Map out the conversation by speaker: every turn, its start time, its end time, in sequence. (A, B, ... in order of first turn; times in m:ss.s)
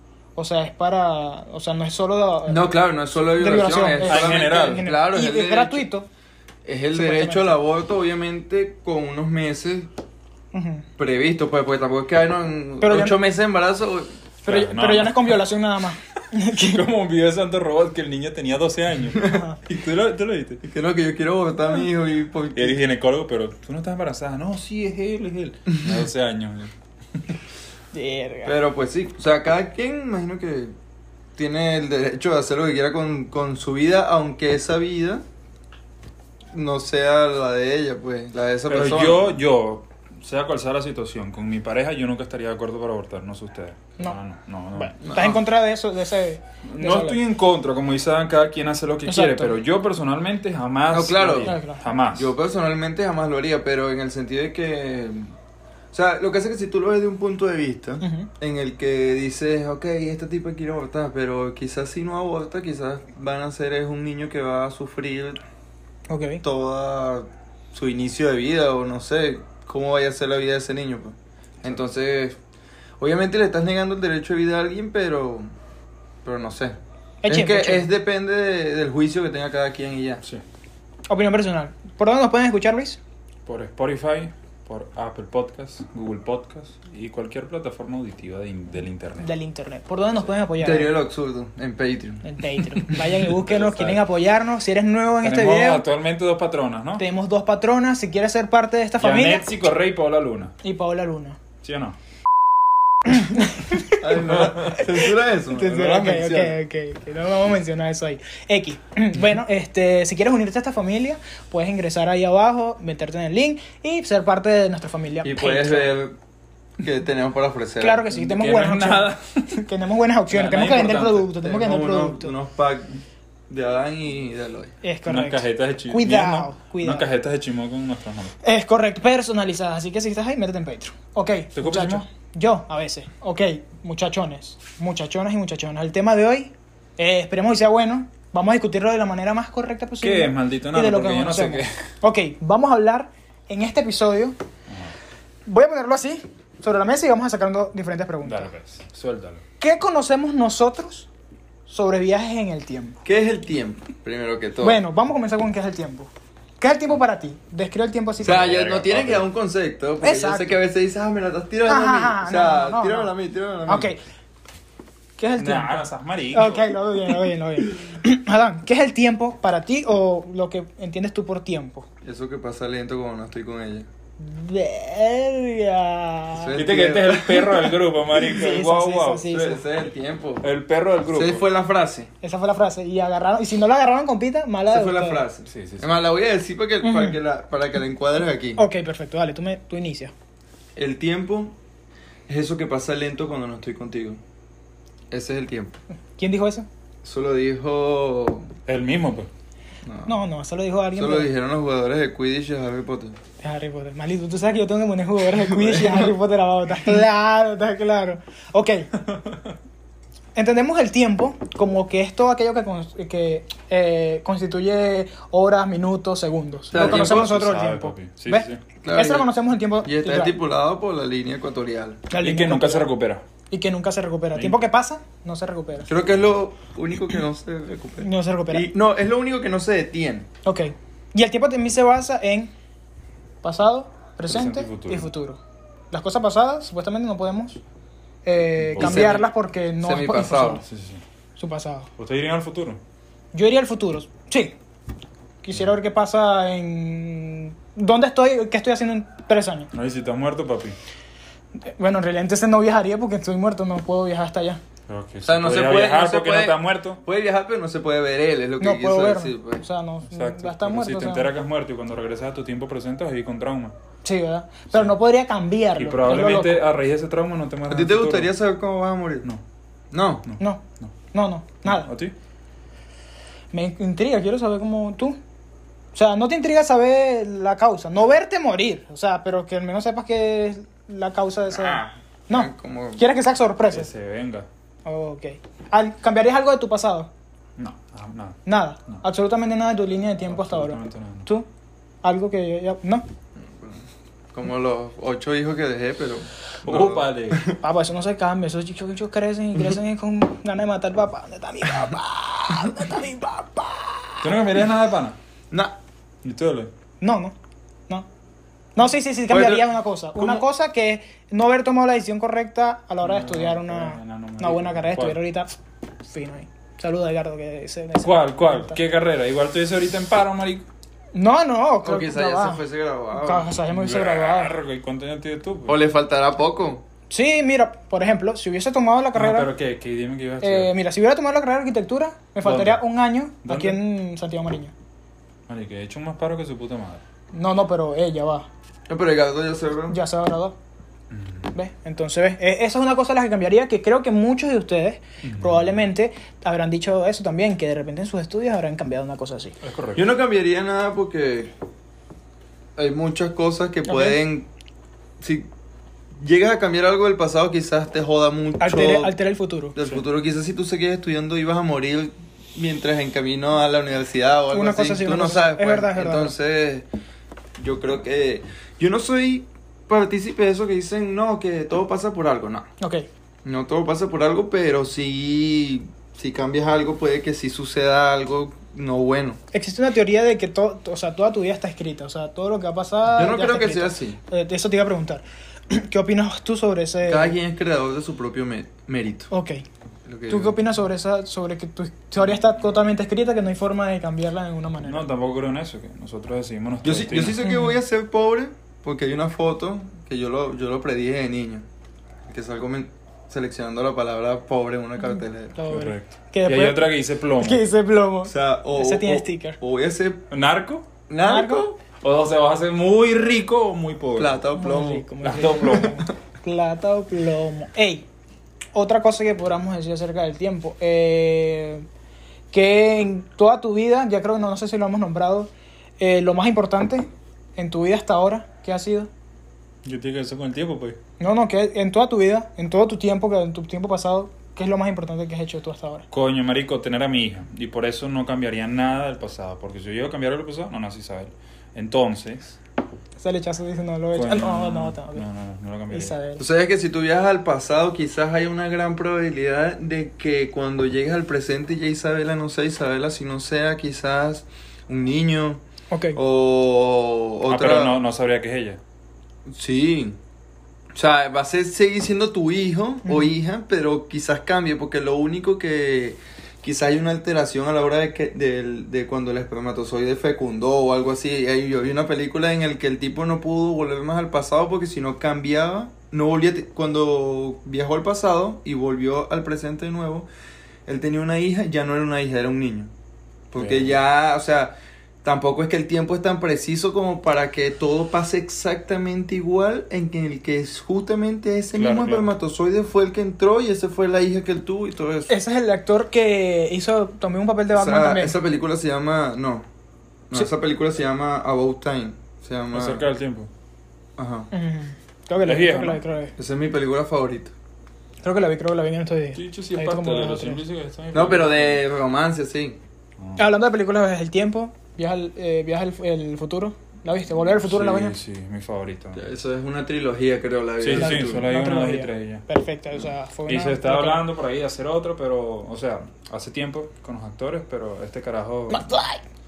0:00.4-0:02.7 A
0:02.5-0:05.9 B
0:03.4-0:06.1 A
0:04.0-0:04.9 C
0:06.6-0:09.9 B
0:06.9-0:07.6 A
0:10.5-0:10.9 A
0:11.0-0:14.2 B
0:12.8-0:13.2 A
0:14.4-0:16.8 A
0:14.5-0:15.4 C
0:16.6-0:20.6 C
0:19.3-0:19.6 A
0:20.6-0:22.8 B
0:22.5-0:27.2 C
0:27.9-0:28.6 A
0:28.4-0:30.7 B
0:31.4-0:35.2 B
0:36.5-0:39.4 B
0:38.7-0:45.0 C
0:44.7-0:47.2 A
0:45.0-0:45.4 B
0:46.6-0:52.3 C
0:49.1-0:49.5 A
0:50.9-0:51.6 B
0:51.4-0:51.8 A
0:52.1-0:55.3 B
0:55.9-1:05.4 B
0:58.0-0:58.3 A
1:06.1-1:06.4 A
1:06.4-1:12.4 B
1:13.0-1:15.5 B
1:16.2-1:20.2 B
1:17.2-1:17.9 A
1:21.1-1:23.0 A
1:23.5-1:29.3 C
1:29.2-1:30.9 A
1:30.6-1:32.2 B
1:32.2-1:35.8 A
1:32.8-1:34.0 C
1:35.2-1:37.0 C
1:37.0-1:39.5 A
1:39.0-1:40.6 C
1:40.6-1:41.4 A
1:41.6-1:42.0 C
1:43.0-1:44.0 A
1:43.9-1:46.5 B
1:44.4-1:44.8 C
1:45.5-1:55.9 A
1:55.2-1:56.2 B
1:56.8-1:58.0 B
1:57.8-2:02.3 A
1:58.1-1:59.6 C
2:00.3-2:01.3 C
2:01.4-2:04.7 B
2:04.8-2:07.1 A
2:05.1-2:08.3 C
2:08.4-2:24.4 A
2:11.6-2:12.0 C
2:20.0-2:21.8 C
2:24.7-2:24.9 C
2:25.5-2:28.5 A
2:28.2-2:29.4 C
2:29.6-2:31.1 A
2:31.7-2:33.0 A
2:33.0-2:34.8 B
2:34.6-2:38.6 A
2:38.2-2:43.9 B
2:38.2-2:39.2 C
2:40.0-2:40.5 A
2:41.7-2:43.1 A
2:43.7-2:44.0 A
2:45.2-2:51.9 A
2:45.4-2:46.8 C
2:52.0-2:53.9 B
2:54.2-2:56.6 A
2:56.3-2:57.7 B
2:56.6-2:59.4 C
2:58.1-2:59.6 A
2:59.3-3:00.5 B
3:00.4-3:01.4 C
3:01.1-3:02.1 B
3:02.2-3:05.2 A
3:04.7-3:08.6 B
3:05.5-3:05.9 C
3:06.8-3:07.2 A
3:08.6-3:10.1 A
3:10.8-3:11.5 B
3:12.3-3:14.2 B
3:15.1-3:15.8 B
3:16.2-3:16.7 A
3:17.0-3:18.5 B
3:18.7-3:19.3 C
3:19.8-3:20.2 B
3:20.1-3:21.3 A
3:21.0-3:23.2 B
3:23.4-3:28.9 A
3:25.3-3:26.1 B
3:29.0-3:29.5 C
3:30.4-3:40.4 A
3:36.7-3:37.3 B
3:36.7-3:38.6 C
3:38.8-3:39.3 B
3:39.8-3:42.0 B
3:42.1-3:42.9 A
3:42.2-3:43.2 C
3:43.5-3:45.9 A
3:44.4-3:44.6 C
3:45.9-3:50.3 B
3:48.0-3:48.7 A
3:50.4-3:52.5 A
3:53.4-3:55.4 A
3:54.3-3:55.1 C
3:55.9-3:57.6 A
3:58.3-4:00.6 A
3:58.7-3:59.2 C
3:58.8-3:59.3 B
3:59.8-4:00.6 B
4:00.6-4:01.0 C
4:01.4-4:01.9 A
4:02.0-4:02.8 C
4:03.3-4:04.6 A
4:05.4-4:09.7 A
4:09.7-4:10.8 C
4:11.6-4:14.6 A
4:14.9-4:17.0 C
4:15.2-4:19.6 B
4:18.6-4:21.3 A
4:20.1-4:23.7 C
4:24.0-4:26.6 A
4:25.8-4:28.3 C
4:27.7-4:29.3 B
4:29.9-4:30.2 B
4:30.3-4:30.9 C
4:31.1-4:31.9 A
4:31.6-4:32.1 C
4:33.5-4:35.2 A
4:35.9-4:43.9 A
4:41.5-4:43.0 B
4:43.7-4:44.5 C
4:44.8-4:47.1 A
4:47.6-4:49.0 C
4:48.5-4:51.5 A
4:50.3-4:51.3 C
4:52.0-4:53.0 A
4:53.4-4:57.6 B
4:56.6-4:57.4 C
4:57.6-5:04.4 A
5:04.2-5:05.2 C
5:05.5-5:05.8 B
5:06.2-5:06.7 C
5:07.0-5:07.4 A
5:08.8-5:15.5 A
5:09.3-5:10.4 B
5:13.0-5:15.2 C
5:16.0-5:18.8 A
5:18.0-5:20.6 C
5:21.1-5:22.6 A
5:21.8-5:23.5 B
5:23.2-5:24.6 A
5:23.7-5:25.8 C
5:25.7-5:26.8 B
5:27.1-5:29.5 A
5:29.2-5:30.7 C
5:30.4-5:34.7 A
5:32.4-5:32.8 C
5:33.4-5:33.8 C
5:35.5-5:37.0 C
5:37.3-5:38.5 A
5:38.9-5:40.0 B
5:39.9-5:40.6 A
5:41.1-5:41.5 C
5:41.5-5:49.5 A
5:45.2-5:45.7 C
5:49.6-5:50.1 C
5:50.0-5:51.5 B
5:52.8-5:54.5 B
5:53.9-5:54.2 A
5:55.2-5:55.5 B
5:56.2-5:59.1 B
5:58.6-5:59.8 A
5:59.8-6:06.8 B
6:04.5-6:06.3 A
6:07.6-6:12.7 B
6:12.8-6:13.1 A
6:13.4-6:19.4 B
6:19.5-6:27.4 A
6:23.1-6:24.2 B
6:27.1-6:29.3 B
6:29.3-6:29.6 A
6:30.1-6:30.6 B
6:30.3-6:35.1 A
6:34.8-6:37.4 C
6:36.8-6:41.7 B
6:37.4-6:37.8 A
6:42.3-6:45.6 B
6:45.6-6:49.6 A
6:45.7-6:47.6 C
6:48.3-6:50.2 B
6:50.3-6:50.9 C
6:51.1-6:51.8 B
6:51.2-6:51.6 A
6:52.0-6:54.4 C
6:54.2-6:56.0 B
6:54.5-6:58.1 A
6:55.2-6:56.0 C
6:58.7-7:01.9 A
7:02.5-7:09.1 A
7:09.8-7:11.0 C
7:11.2-7:16.1 A
7:16.1-7:22.6 C
7:23.2-7:25.2 A
7:24.1-7:26.1 C
7:25.9-7:26.4 A
7:26.4-7:35.6 B
7:35.9-7:36.2 A
7:36.2-7:38.0 B
7:37.5-7:38.8 C
7:39.5-7:40.2 B
7:40.9-8:00.3 B
7:43.0-7:43.3 A
8:00.9-8:02.9 B
8:03.5-8:15.3 B
8:03.6-8:04.0 C
8:11.8-8:12.3 C
8:15.3-8:18.4 A
8:17.7-8:19.7 B
8:20.3-8:23.1 B
8:22.7-8:23.5 C
8:24.2-8:24.5 B
8:24.5-8:26.3 A
8:25.4-8:26.0 C
8:26.4-8:27.5 B
8:28.2-8:30.6 A
8:29.4-8:31.8 C
8:31.1-8:32.8 B
8:33.2-8:33.5 C
8:33.4-8:38.2 A
8:37.4-8:39.2 C
8:39.1-8:41.4 B
8:40.8-8:42.4 C
8:41.0-8:44.2 A
8:43.5-8:48.9 C
8:48.7-8:49.2 A